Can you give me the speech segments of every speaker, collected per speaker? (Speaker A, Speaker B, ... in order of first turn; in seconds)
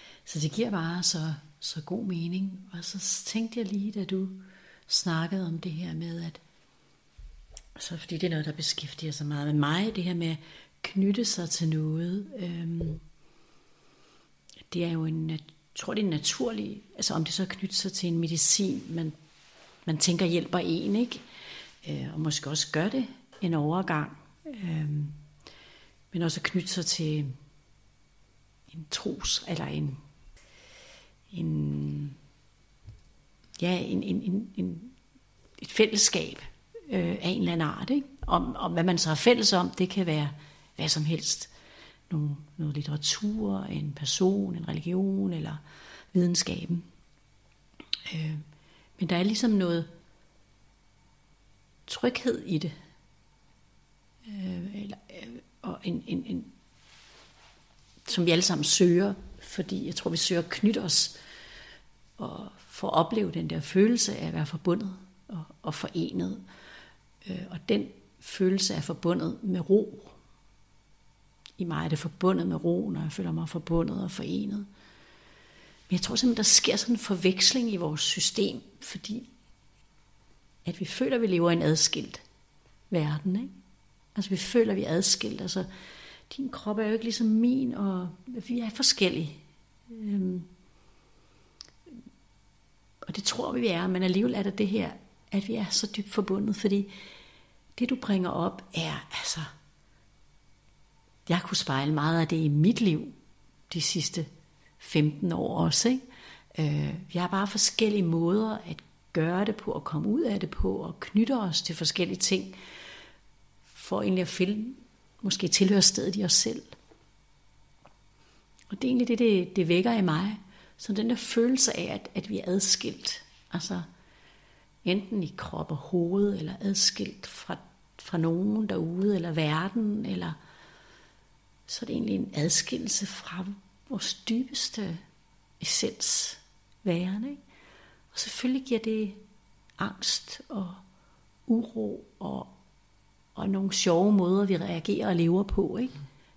Speaker A: 0.2-6.4, 7.8-13.0, 14.7-19.1, 19.9-21.2, 21.8-25.2, 26.1-27.3, 28.7-30.0, 31.3-32.2, 33.6-34.9, 35.6-41.5, 42.1-45.6, 46.1-46.9, 48.0-48.4, 49.0-49.9, 51.9-52.7, 54.2-56.5, 58.0-61.2, 62.2-66.4, 67.2-70.2, 71.6-74.7, 75.9-79.3, 80.6-82.2, 82.9-83.5, 84.1-85.7, 86.3-90.5, 93.0-96.9, 97.8-99.5, 101.3-103.1, 103.7-104.3, 104.8-106.0, 106.5-112.6, 113.7-116.7, 118.7-123.9, 124.8-130.3, 131.7-135.0, 135.6-137.4, 138.1-139.2, 139.8-140.8, 141.5-142.5, 143.3-146.0